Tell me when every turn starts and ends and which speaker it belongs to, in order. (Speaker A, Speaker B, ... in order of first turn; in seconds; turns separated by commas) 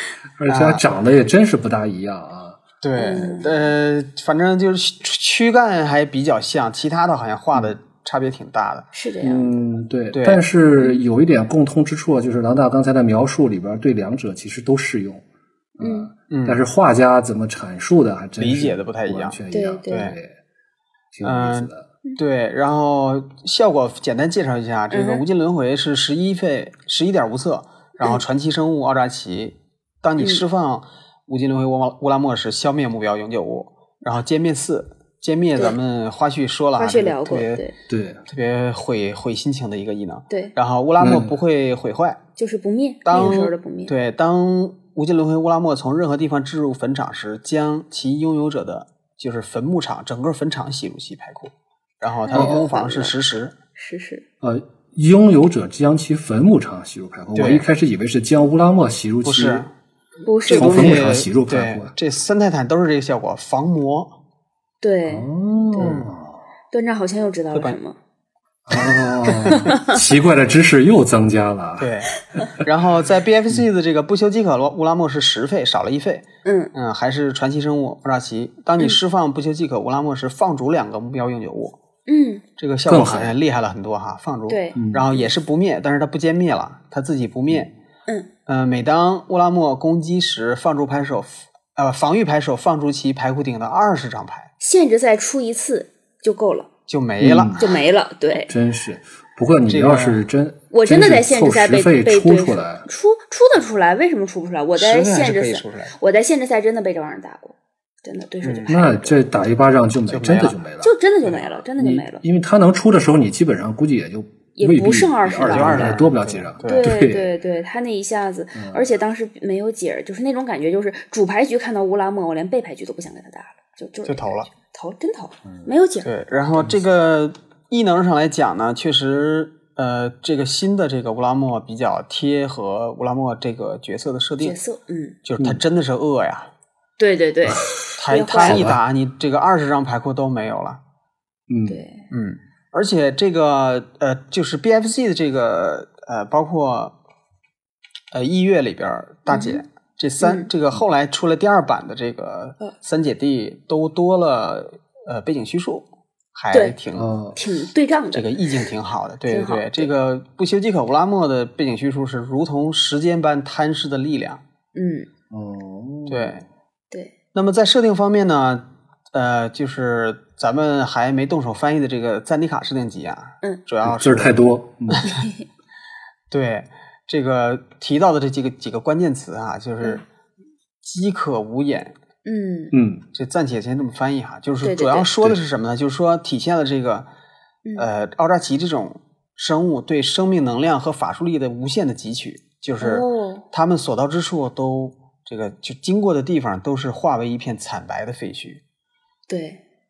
Speaker A: 0.4-2.6, Speaker B: 0.5-0.8, Speaker B: 2.8-8.9, Speaker C: 2.9-3.7, Speaker C: 8.9-9.5, Speaker A: 9.2-15.2, Speaker B: 10.1-10.4, Speaker C: 10.8-11.0, Speaker A: 15.8-20.4, Speaker C: 15.8-16.1, Speaker B: 16.3-16.6, Speaker B: 18.4-20.2, Speaker C: 19.5-20.1, Speaker A: 21.1-21.9, Speaker B: 21.2-37.6, Speaker C: 24.9-25.2, Speaker C: 30.2-30.4, Speaker C: 36.8-37.7, Speaker A: 37.9-38.2, Speaker B: 38.3-42.2, Speaker A: 41.0-41.3, Speaker C: 42.4-44.0, Speaker B: 43.0-53.5, Speaker C: 52.2-53.2, Speaker A: 52.3-52.6, Speaker C: 53.8-54.2, Speaker A: 54.4-59.6, Speaker B: 57.3-57.7, Speaker B: 59.2-59.7, Speaker C: 60.2-61.0, Speaker B: 60.5-64.2, Speaker A: 60.5-61.9, Speaker C: 64.8-65.3, Speaker A: 65.1-66.4, Speaker B: 65.8-66.1, Speaker C: 66.7-68.0, Speaker A: 68.7-72.5, Speaker B: 68.7-69.7, Speaker B: 71.8-81.8, Speaker C: 76.4-76.7, Speaker C: 82.1-82.4, Speaker B: 82.6-87.7, Speaker A: 82.8-83.4, Speaker C: 84.5-84.8, Speaker A: 84.8-85.2, Speaker B: 88.5-94.5, Speaker C: 94.6-96.7, Speaker B: 96.9-97.6, Speaker A: 97.2-97.8, Speaker C: 97.6-98.5, Speaker A: 98.5-102.9, Speaker B: 99.7-100.3, Speaker C: 100.7-109.2, Speaker B: 104.7-105.9, Speaker B: 108.4-108.8, Speaker A: 108.7-110.9, Speaker B: 110.1-110.6, Speaker C: 110.8-112.2, Speaker B: 111.2-111.6, Speaker A: 111.8-117.3, Speaker C: 114.5-115.9, Speaker B: 115.4-117.2, Speaker C: 116.6-126.1, Speaker A: 118.5-118.9, Speaker B: 124.0-124.5, Speaker A: 125.4-125.7, Speaker B: 126.0-134.6, Speaker A: 126.5-126.9, Speaker C: 134.4-135.2, Speaker B: 135.2-136.5, Speaker C: 137.0-138.7, Speaker A: 137.5-137.8, Speaker B: 138.0-140.8, Speaker A: 138.4-138.8, Speaker A: 141.5-141.8, Speaker C: 141.7-142.1, Speaker B: 142.1-146.9, Speaker B: 148.1-157.1, Speaker C: 149.3-149.6, Speaker C: 150.2-150.5, Speaker C: 156.5-156.8, Speaker A: 156.9-157.4, Speaker C: 157.3-158.5, Speaker B: 158.1-164.4, Speaker C: 159.3-159.9, Speaker C: 164.7-165.1, Speaker A: 165.3-166.4, Speaker B: 166.1-166.4, Speaker B: 167.3-175.1, Speaker A: 173.8-175.1, Speaker B: 176.3-180.0, Speaker B: 180.8-181.9, Speaker C: 182.2-182.7, Speaker A: 182.7-183.0, Speaker B: 183.1-187.1, Speaker C: 184.6-185.1, Speaker B: 187.8-198.6, Speaker C: 192.8-193.4, Speaker C: 199.3-199.6